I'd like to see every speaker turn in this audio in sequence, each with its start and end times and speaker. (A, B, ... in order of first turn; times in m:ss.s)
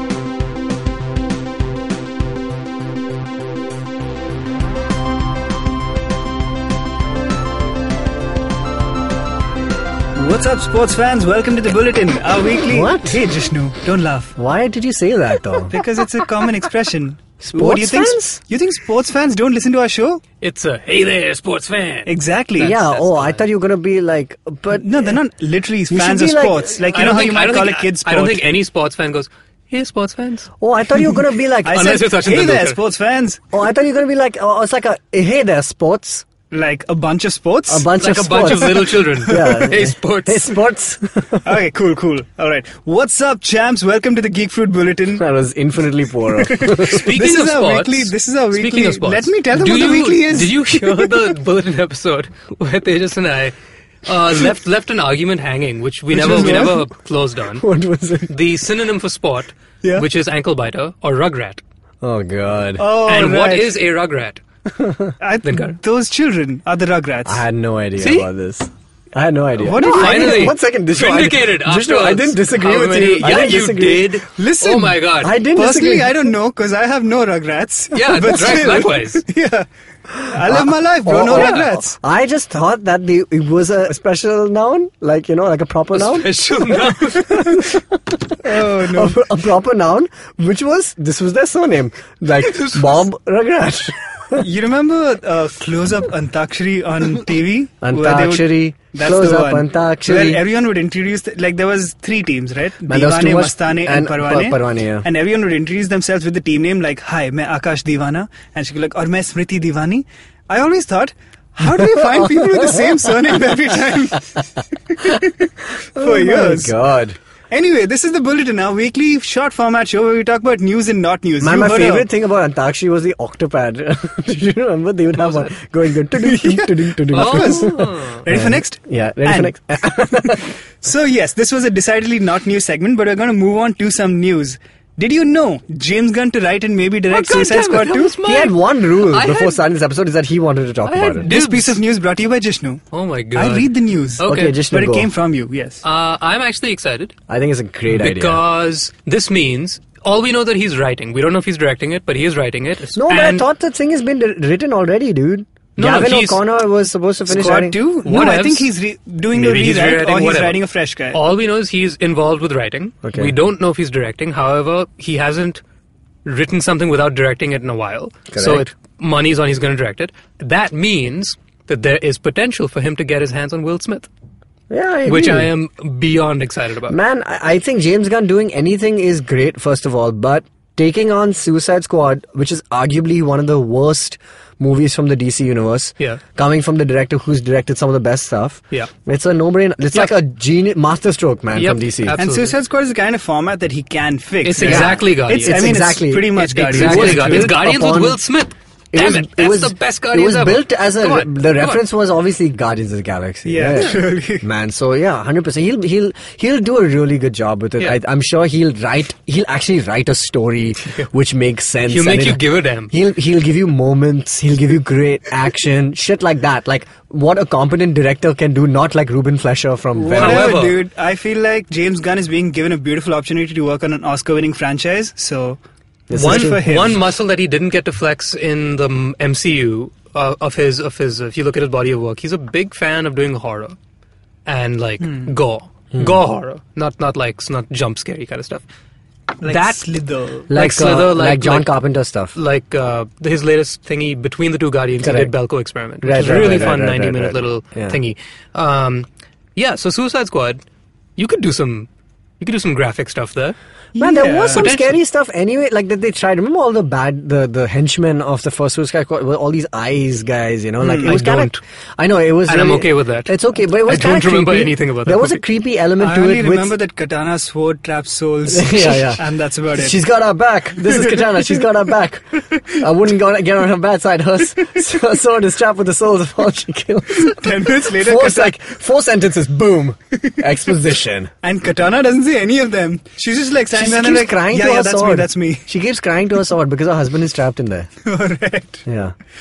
0:10.2-0:14.4 A
0:12.6-0:13.2 B
0:14.4-0:15.9 B
0:15.7-0:20.2 A
0:17.4-0:18.4 B
0:20.4-0:23.5 C
0:22.1-0:22.8 A
0:22.6-0:25.2 B
0:24.8-0:28.5 A
0:25.9-0:26.7 B
0:26.8-0:30.5 C
0:30.6-0:32.0 B
0:31.6-0:33.4 A
0:31.7-0:32.8 C
0:33.5-0:36.2 B
0:36.5-0:39.7 A
0:37.7-0:41.5 B
0:38.0-0:40.6 C
0:41.4-0:45.2 A
0:45.2-0:47.1 B
0:46.4-0:51.4 A
0:46.8-0:57.6 C
0:56.1-0:56.8 A
0:57.5-0:58.3 B
0:58.3-1:01.6 C
1:02.0-1:02.9 B
1:02.8-1:03.8 A
1:03.0-1:04.4 C
1:04.8-1:05.2 B
1:05.2-1:07.4 A
1:05.4-1:05.8 C
1:07.2-1:14.2 B
1:08.0-1:08.3 C
1:09.6-1:10.5 A
1:09.8-1:15.4 C
1:14.3-1:19.7 A
1:15.2-1:16.1 B
1:17.9-1:19.2 C
1:20.2-1:26.5 B
1:20.3-1:22.0 A
1:21.3-1:21.7 C
1:25.9-1:27.5 C
1:27.5-1:34.4 B
1:28.4-1:29.2 A
1:32.3-1:33.0 C
1:34.4-1:56.7 A
1:37.8-1:40.4 B
1:42.9-1:45.1 B
1:52.2-1:52.7 B
1:56.0-1:57.2 B
1:57.5-2:02.1 A
2:01.4-2:10.5 B
2:05.2-2:05.6 C
2:06.2-2:18.2 A
2:07.1-2:08.2 C
2:17.1-2:19.6 C
2:18.2-2:21.3 B
2:20.8-2:21.8 C
2:21.2-2:22.8 A
2:22.9-2:24.6 C
2:23.4-2:25.8 A
2:24.2-2:25.1 B
2:25.8-2:27.1 C
2:27.3-2:28.4 B
2:27.9-2:33.5 C
2:33.0-2:37.8 B
2:35.8-2:36.4 C
2:37.3-2:41.2 A
2:38.0-2:38.7 C
2:39.3-2:40.6 C
2:41.1-2:45.6 C
2:43.0-2:43.4 B
2:46.2-2:54.1 C
2:48.3-2:48.6 B
2:54.7-2:55.5 B
2:55.0-2:57.0 C
2:56.9-3:12.2 B
3:11.6-3:12.6 C
3:12.2-3:17.6 A
3:14.4-3:21.8 C
3:14.6-3:18.2 B
3:18.9-3:40.6 B
3:23.4-3:24.5 A
3:31.8-3:33.0 C
3:40.0-3:45.6 A
3:40.1-3:40.8 C
3:46.1-3:46.9 B
3:46.1-3:47.0 A
3:46.1-3:53.8 C
3:54.5-3:58.6 C
3:55.0-3:55.3 A
3:55.9-3:56.2 B
3:59.4-4:00.5 A
3:59.4-3:59.9 C
4:00.5-4:02.4 B
4:00.5-4:01.8 C
4:02.3-4:10.6 C
4:05.0-4:05.4 B
4:06.0-4:08.0 B
4:06.2-4:06.8 A
4:11.2-4:11.9 C
4:12.4-4:13.6 C
4:14.0-4:14.7 A
4:14.0-4:26.8 B
4:14.5-4:15.0 C
4:20.8-4:21.2 A
4:21.0-4:21.6 C
4:22.5-4:25.4 C
4:26.0-4:30.0 A
4:28.5-4:29.2 B
4:29.7-4:41.3 B
4:30.8-4:31.6 A
4:37.2-4:38.6 A
4:41.4-4:45.7 A
4:43.7-4:47.9 B
4:48.0-4:48.8 A
4:48.9-4:49.2 B